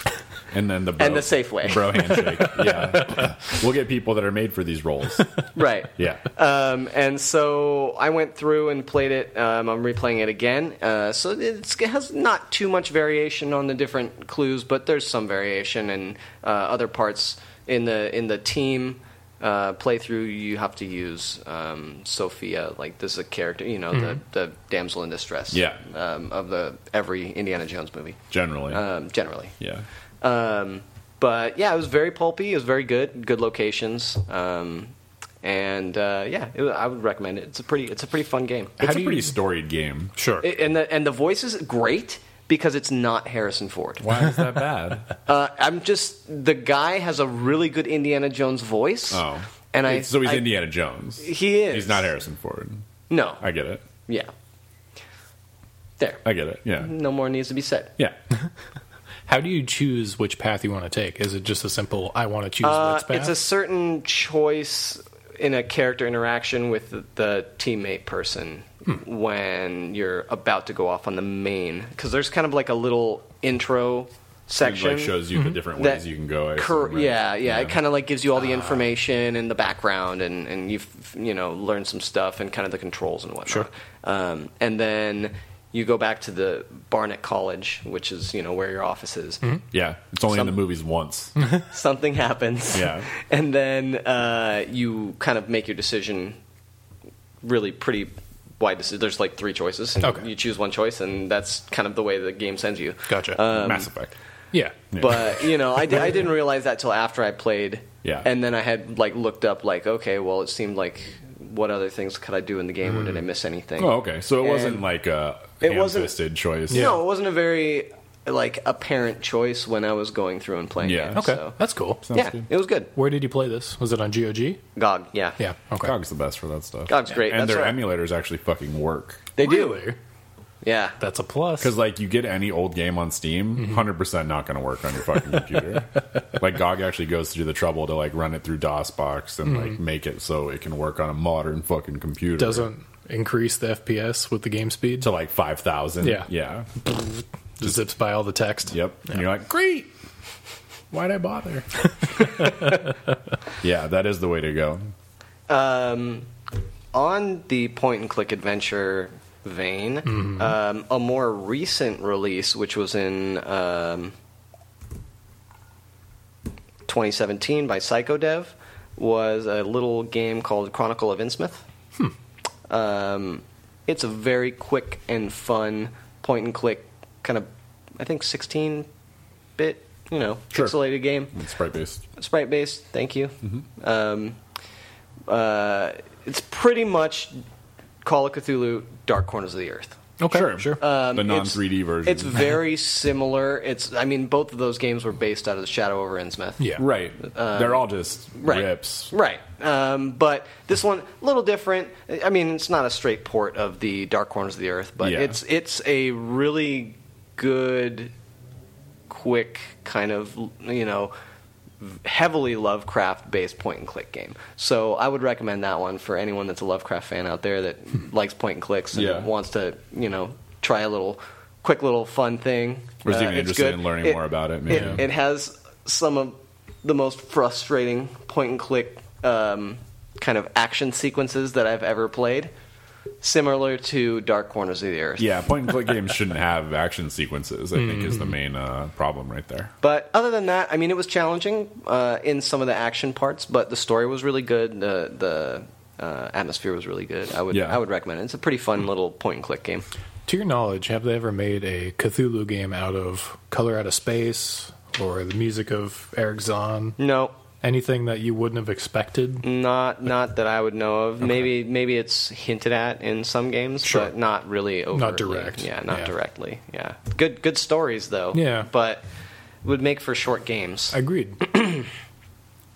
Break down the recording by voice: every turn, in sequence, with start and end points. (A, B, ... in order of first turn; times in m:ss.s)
0:00.5-0:05.3 A
0:01.0-0:02.2 B
0:02.8-0:03.2 C
0:05.5-0:29.5 B
0:06.0-0:06.3 A
0:25.5-0:25.8 A
0:28.3-0:28.8 A
0:29.6-0:29.8 A
0:30.2-0:38.8 B
0:38.8-0:40.1 A
0:38.8-0:39.3 C
0:40.2-0:40.4 C
0:40.4-0:44.1 B
0:44.0-0:45.1 A
0:45.2-0:50.5 B
0:49.1-0:52.8 A
0:51.2-0:52.1 B
0:53.1-0:53.4 B
0:53.4-0:53.8 A
0:56.0-0:56.2 B
0:56.2-0:56.9 A
0:56.8-0:57.9 B
0:59.3-1:03.4 C
1:02.6-1:15.2 B
1:14.6-1:17.8 A
1:15.3-1:15.6 C
1:15.7-1:16.0 B
1:16.6-1:29.5 B
1:29.7-1:31.3 A
1:30.3-1:30.6 B
1:31.5-1:36.4 B
1:32.7-1:33.1 A
1:37.4-1:43.9 B
1:40.0-1:40.3 C
1:43.1-1:43.4 C
1:43.5-1:44.1 A
1:44.5-1:44.8 C
1:44.9-1:45.3 A
1:45.0-1:54.8 B
1:53.8-1:57.0 A
1:55.6-1:56.1 B
1:56.7-2:01.6 B
1:56.7-1:57.0 C
2:00.8-2:01.2 A
2:01.1-2:02.0 C
2:02.0-2:02.4 A
2:02.1-2:02.9 B
2:02.9-2:04.6 C
2:04.8-2:05.4 B
2:05.4-2:05.9 C
2:05.8-2:09.3 A
2:06.9-2:07.8 B
2:09.4-2:09.9 B
2:09.4-2:10.0 C
2:10.6-2:11.0 B
2:11.0-2:11.7 C
2:11.6-2:22.7 A
2:19.4-2:19.8 C
2:22.4-2:25.1 C
2:25.0-2:26.7 A
2:26.0-2:26.3 C
2:27.6-2:29.2 C
2:28.7-2:29.9 A
2:30.9-2:31.6 A
2:32.2-2:32.9 C
2:33.6-2:34.8 A
2:35.5-2:36.3 B
2:36.9-2:44.1 B
2:40.1-2:40.5 C
2:46.9-2:51.6 B
2:52.7-2:58.9 B
2:59.6-3:01.3 B
3:01.3-3:02.0 A
3:02.2-3:04.4 B
3:05.3-3:07.4 B
3:08.0-3:10.0 B
3:10.2-3:10.8 C
3:10.3-3:12.5 A
3:10.8-3:28.1 B
3:16.6-3:16.8 C
3:16.8-3:19.1 A
3:25.0-3:25.4 A
3:29.1-3:31.1 B
3:31.8-3:52.5 B
3:38.9-3:39.3 A
3:43.0-3:45.0 A
3:44.7-3:45.0 C
3:53.2-3:55.4 B
3:55.2-3:59.7 A
3:57.7-3:58.3 C
3:59.8-4:09.8 B
4:07.5-4:07.8 A
4:10.2-4:17.0 C
4:17.0-4:17.3 B
4:17.6-4:19.4 C
4:19.4-4:29.0 B
4:23.8-4:24.1 C
4:24.9-4:26.1 C
4:28.3-4:28.7 C
4:29.6-4:31.9 B
4:30.9-4:31.5 C